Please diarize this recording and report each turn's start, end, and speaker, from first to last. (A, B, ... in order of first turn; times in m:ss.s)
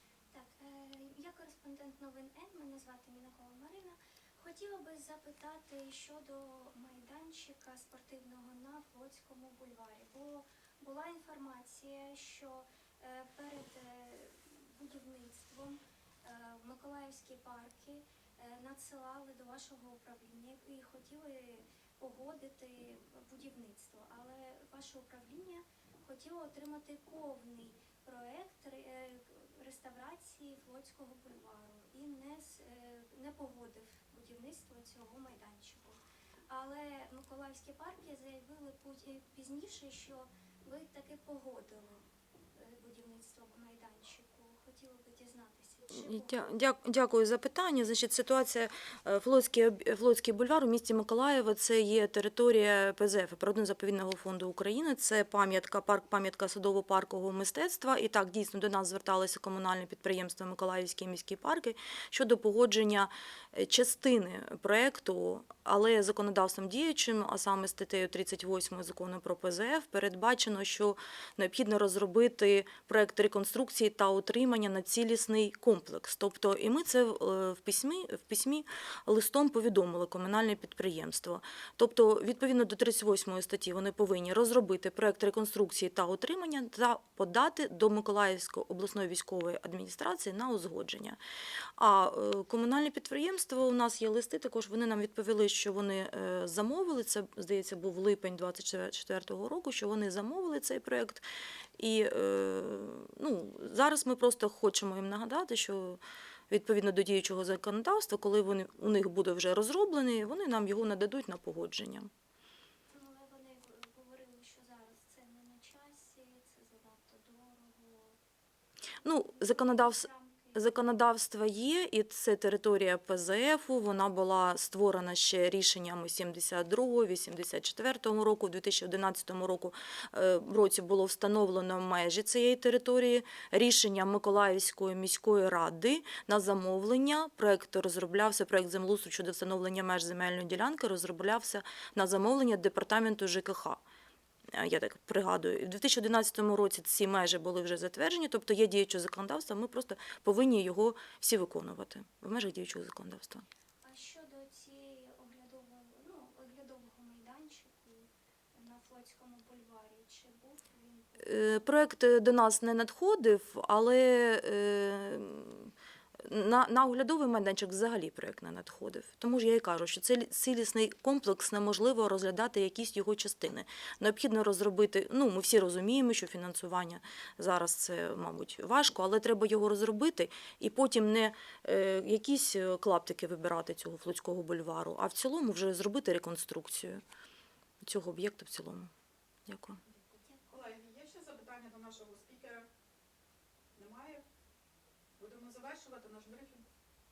0:00.3-0:46.5 A
0:45.9-1:31.2 B
1:31.8-1:41.2 B
1:41.8-1:52.1 B
1:52.9-1:58.2 A
1:59.0-2:00.8 A
1:59.0-2:23.8 B
2:24.5-2:33.4 B
2:33.8-2:41.7 A
2:41.2-2:45.7 B
2:46.2-3:07.0 B
3:07.8-3:08.9 B
3:09.5-3:09.8 B
3:10.2-3:10.7 A
3:10.5-3:12.7 C
3:13.7-3:14.2 C
3:15.2-3:16.6 C